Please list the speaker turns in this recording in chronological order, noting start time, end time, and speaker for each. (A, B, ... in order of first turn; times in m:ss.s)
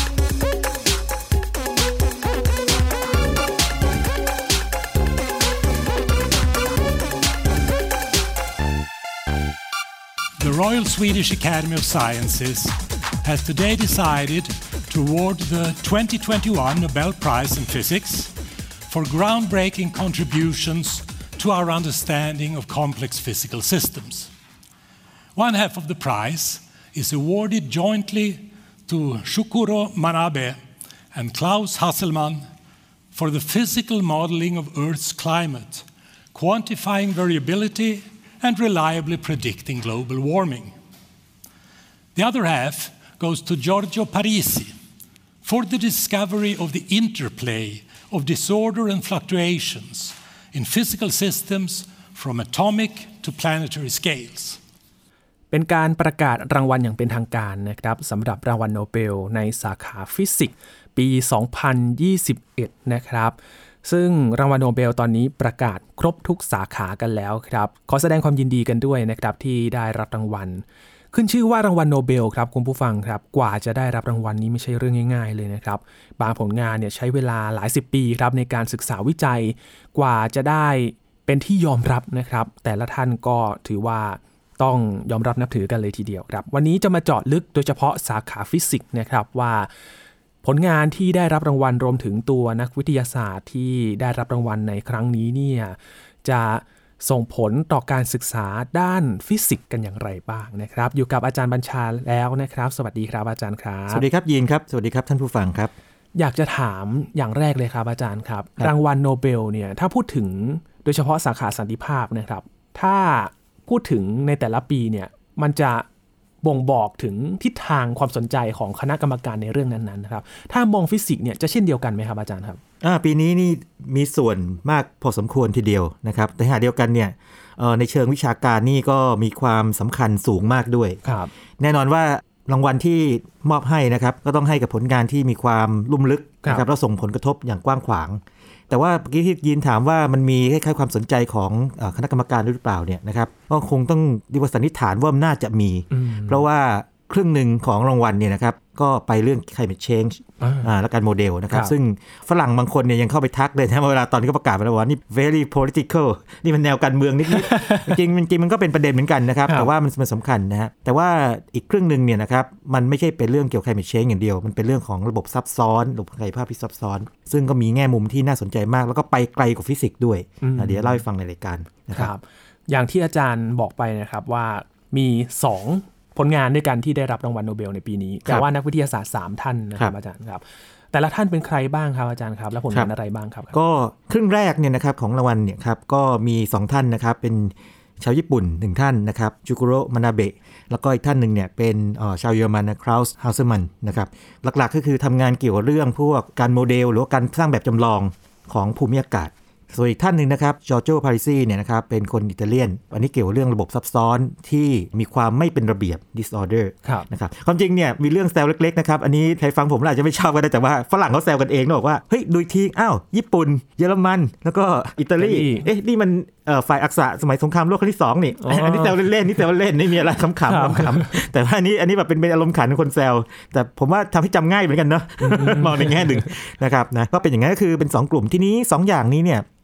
0:10.4-0:18.3 A
0:18.9-0:24.3 A
0:25.3-0:30.6 A
0:31.1-0:32.4 A
0:33.1-0:40.7 A
0:42.1-0:44.7 A
0:45.4-0:54.6 A
0:55.5-1:29.7 B
1:30.4-1:44.0 B
1:43.9-1:45.7 C
1:46.2-1:55.8 B
1:56.4-2:02.6 B
2:02.8-2:11.0 C
2:11.0-2:11.3 B
2:11.6-2:52.1 C
2:25.9-2:26.4 B
2:30.4-2:30.7 B
2:37.3-2:38.0 B
2:50.4-2:51.0 B
2:51.9-3:00.4 B
3:00.9-3:03.6 B
3:03.5-3:49.4 C
3:35.2-3:35.7 B
3:38.4-3:39.0 B
3:40.5-3:41.2 B
3:45.2-3:46.3 B